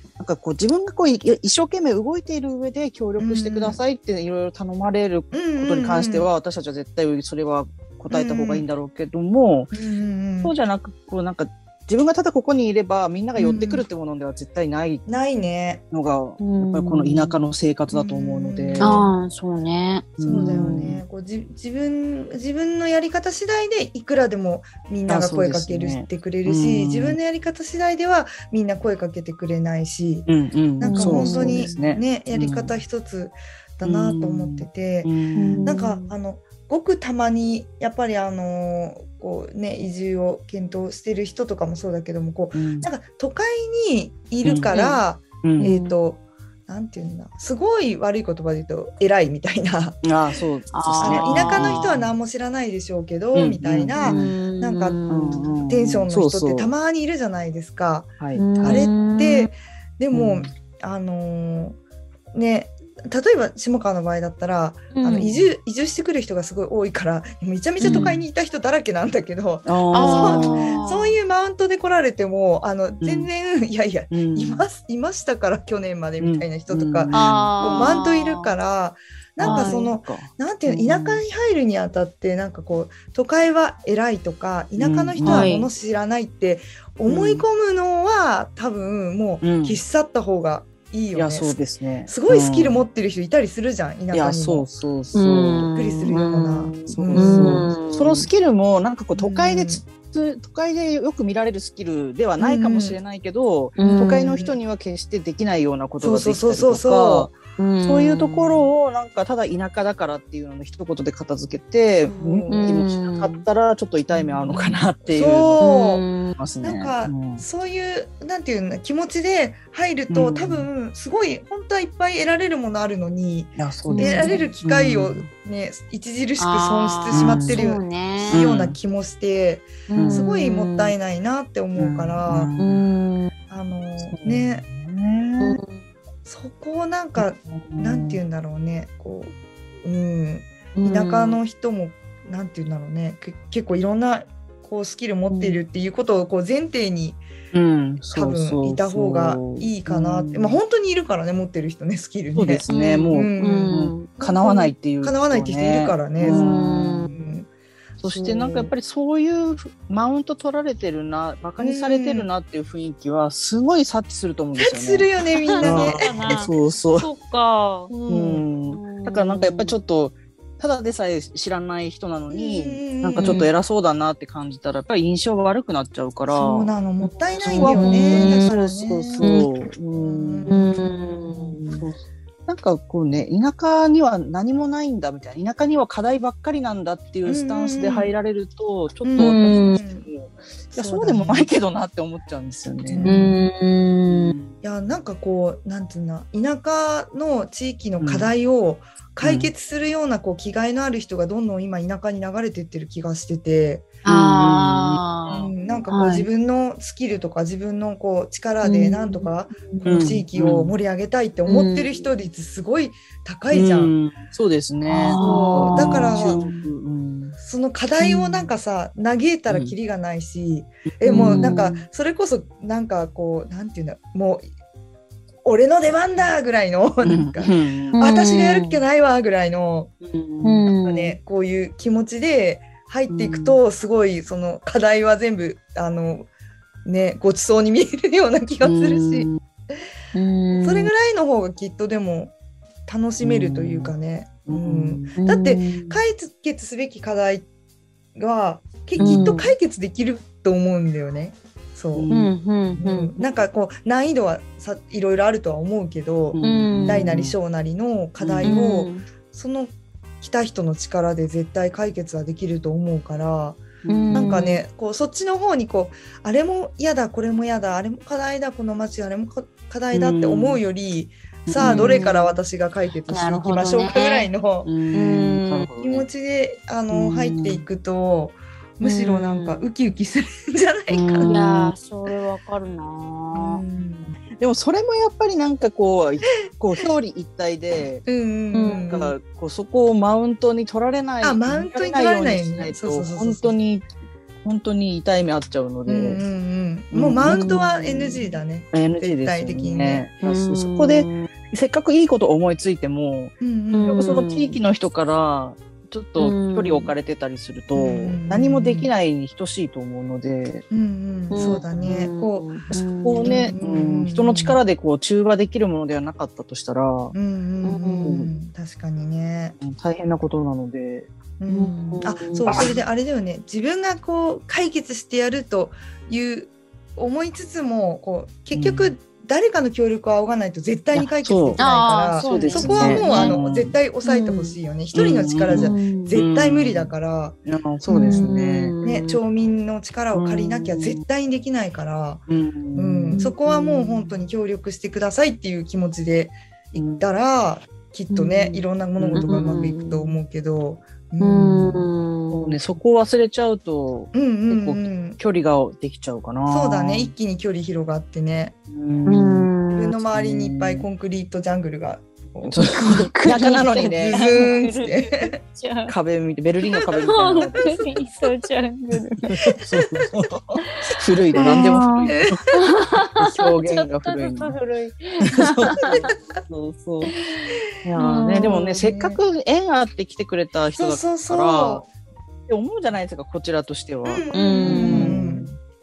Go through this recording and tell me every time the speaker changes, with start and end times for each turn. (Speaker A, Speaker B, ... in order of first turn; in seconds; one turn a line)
Speaker A: 0.2-9.8
Speaker B: 3.2-3.8
Speaker B: 5.3-6.3
Speaker B: 8.1-8.7
Speaker B: 9.7-10.6
Speaker A: 10.4-15.1
Speaker B: 13.4-13.9
Speaker B: 15.1-15.8
Speaker A: 15.9-19.0
Speaker C: 16.4-17.4
Speaker B: 17.9-19.1
Speaker C: 18.8-20.9
Speaker A: 20.2-21.0
Speaker B: 20.2-30.3
Speaker A: 25.1-27.2
Speaker A: 30.3-32.8
Speaker B: 30.8-50.1
Speaker C: 30.8-31.8
Speaker A: 33.8-35.6
Speaker C: 35.4-36.1
Speaker A: 42.5-42.9
Speaker A: 44.4-44.8
Speaker C: 44.7-45.0
Speaker A: 45.4-45.7
Speaker C: 45.6-46.0
Speaker A: 50.0-52.1
Speaker C: 50.7-52.0
Speaker B: 51.0-61.8
Speaker A: 53.3-54.3
Speaker C: 54.0-55.5
Speaker A: 55.1-56.7
Speaker A: 58.2-58.9
Speaker C: 58.4-59.5
Speaker A: 60.1-60.5
Speaker B: 62.3-94.7
Speaker C: 64.9-65.3
Speaker C: 67.8-68.2
Speaker A: 67.8-68.2
Speaker A: 69.6-70.7
Speaker C: 69.9-71.2
Speaker A: 73.0-73.3
Speaker A: 74.1-74.7
Speaker A: 76.2-77.9
Speaker C: 77.1-78.5
Speaker A: 79.4-81.2
Speaker C: 79.4-79.9
Speaker A: 84.8-85.5
Speaker C: 85.2-85.7
Speaker A: 87.1-87.4
Speaker A: 89.4-89.8
Speaker A: 91.1-92.8
Speaker A: 94.1-95.7
Speaker C: 95.1-98.3
Speaker B: 95.7-97.8
Speaker A: 96.9-107.3
Speaker B: 99.1-99.8
Speaker B: 102.4-103.0
Speaker C: 103.8-104.4
Speaker B: 103.8-104.6
Speaker B: 106.0-107.4
Speaker C: 107.6-108.7
Speaker A: 107.8-115.6
Speaker B: 112.1-112.8
Speaker C: 112.5-113.4
Speaker B: 114.1-116.0
Speaker C: 115.6-116.4
Speaker A: 116.4-117.4
Speaker B: 116.6-132.5
Speaker A: 120.1-120.7
Speaker A: 123.6-125.2
Speaker C: 123.9-124.5
Speaker C: 126.4-128.4
Speaker A: 127.1-127.7
Speaker A: 128.3-128.8
Speaker C: 129.9-130.9
Speaker A: 129.9-130.3
Speaker A: 131.8-132.8
Speaker C: 132.6-133.3
Speaker B: 133.5-134.7
Speaker A: 134.1-135.6
Speaker C: 135.4-135.8
Speaker B: 136.2-147.2
Speaker A: 137.2-138.2
Speaker C: 140.8-141.4
Speaker C: 145.3-145.6
Speaker A: 147.5-150.6
Speaker B: 148.1-156.5
Speaker A: 152.3-157.1
Speaker C: 152.7-154.1
Speaker C: 156.2-157.1
Speaker B: 157.1-157.5
Speaker A: 158.0-165.1
Speaker B: 158.0-158.7
Speaker B: 161.6-162.3
Speaker B: 164.6-166.4
Speaker C: 165.5-167.9
Speaker A: 165.6-167.1
Speaker B: 167.9-168.4
Speaker A: 168.1-176.8
Speaker C: 168.7-169.8
Speaker B: 172.3-173.5
Speaker C: 173.2-173.5
Speaker B: 176.3-179.4
Speaker A: 177.4-180.8
Speaker C: 177.4-178.5
Speaker C: 179.2-179.5
Speaker B: 179.9-181.5
Speaker C: 180.5-181.6
Speaker A: 181.6-193.2
Speaker B: 187.2-188.1
Speaker B: 189.0-190.1
Speaker C: 189.2-189.8
Speaker B: 190.8-191.5
Speaker B: 192.8-193.4
Speaker C: 193.0-194.4
Speaker A: 194.1-194.6
Speaker B: 194.6-203.9
Speaker A: 198.0-198.3
Speaker A: 199.2-199.5
Speaker C: 204.0-206.3
Speaker A: 204.1-205.0
Speaker B: 205.3-213.9
Speaker C: 208.6-210.2
Speaker A: 209.8-210.7
Speaker C: 211.5-212.0
Speaker A: 213.5-217.4
Speaker C: 214.9-216.7
Speaker B: 215.1-216.4
Speaker B: 217.4-224.5
Speaker C: 218.0-218.3
Speaker A: 219.5-219.8
Speaker A: 221.0-221.6
Speaker C: 221.1-221.8
Speaker B: 225.4-229.9
Speaker A: 227.0-228.0
Speaker C: 227.9-228.8
Speaker A: 230.0-230.7
Speaker C: 230.4-231.2
Speaker B: 230.8-236.3
Speaker A: 233.1-233.6
Speaker B: 236.8-239.3
Speaker A: 238.6-239.4
Speaker C: 240.1-240.9
Speaker B: 240.5-242.3
Speaker B: 242.9-247.5
Speaker A: 243.2-243.9
Speaker A: 244.5-245.2
Speaker C: 245.2-246.0
Speaker B: 248.1-252.1
Speaker A: 249.0-249.3
Speaker C: 249.0-249.5
Speaker A: 251.9-252.4
Speaker C: 252.1-253.2
Speaker B: 252.8-274.7
Speaker A: 256.3-257.4
Speaker C: 256.4-257.1
Speaker A: 258.2-258.5
Speaker C: 258.4-259.0
Speaker A: 263.8-264.4
Speaker C: 263.9-264.6
Speaker A: 269.9-270.6
Speaker A: 271.5-272.1
Speaker C: 271.6-272.4
Speaker C: 273.1-274.3
Speaker A: 274.6-276.1
Speaker C: 274.9-275.7
Speaker B: 275.8-281.4
Speaker A: 276.9-277.6
Speaker C: 278.8-279.7
Speaker A: 280.9-281.7
Speaker C: 281.2-283.6
Speaker B: 283.3-284.2
Speaker A: 284.4-288.1
Speaker B: 288.0-289.1
Speaker C: 288.5-288.9
Speaker A: 288.7-293.9
Speaker B: 291.2-293.6
Speaker A: 294.4-296.2
Speaker B: 295.9-300.1
Speaker A: 296.9-297.6
Speaker C: 297.2-298.4
Speaker A: 298.7-303.4
Speaker C: 300.2-301.3
Speaker B: 303.4-304.2
Speaker C: 303.7-304.6
Speaker A: 303.9-310.6
Speaker C: 306.2-306.9
Speaker B: 307.8-308.9
Speaker B: 310.7-312.6
Speaker C: 311.3-313.6
Speaker A: 311.4-312.0
Speaker A: 312.7-317.1
Speaker B: 313.2-314.6
Speaker B: 317.1-319.6
Speaker C: 317.6-318.3
Speaker A: 318.0-318.3
Speaker A: 319.6-321.1
Speaker B: 321.4-337.4
Speaker C: 321.5-322.7
Speaker A: 322.4-322.7
Speaker A: 328.5-328.9
Speaker A: 330.9-331.6
Speaker C: 331.6-333.4
Speaker A: 332.2-333.8
Speaker C: 334.0-334.6
Speaker A: 334.9-336.9
Speaker C: 335.5-336.2
Speaker A: 337.5-339.2
Speaker C: 337.9-338.9
Speaker B: 337.9-351.9
Speaker A: 340.1-341.0
Speaker A: 342.3-343.2
Speaker C: 343.1-344.1
Speaker A: 346.7-347.1
Speaker C: 348.1-350.2
Speaker A: 349.0-349.7
Speaker C: 351.2-352.6
Speaker A: 352.3-357.1
Speaker B: 354.1-355.2
Speaker B: 356.5-358.6
Speaker A: 358.7-359.5
Speaker C: 359.1-360.0
Speaker B: 359.7-363.0
Speaker A: 360.1-360.9
Speaker A: 362.4-364.4
Speaker C: 362.7-365.9
Speaker B: 363.5-365.4
Speaker A: 365.9-367.9
Speaker C: 366.9-369.6
Speaker B: 367.5-367.9
Speaker A: 369.2-372.4
Speaker C: 371.3-376.1
Speaker B: 371.4-372.6
Speaker A: 373.1-374.6
Speaker A: 375.3-377.1
Speaker B: 375.9-376.1
Speaker C: 377.0-378.6
Speaker A: 377.8-381.9
Speaker B: 378.4-379.2
Speaker B: 380.8-381.9
Speaker A: 382.5-385.6
Speaker B: 384.0-385.5
Speaker C: 384.3-385.1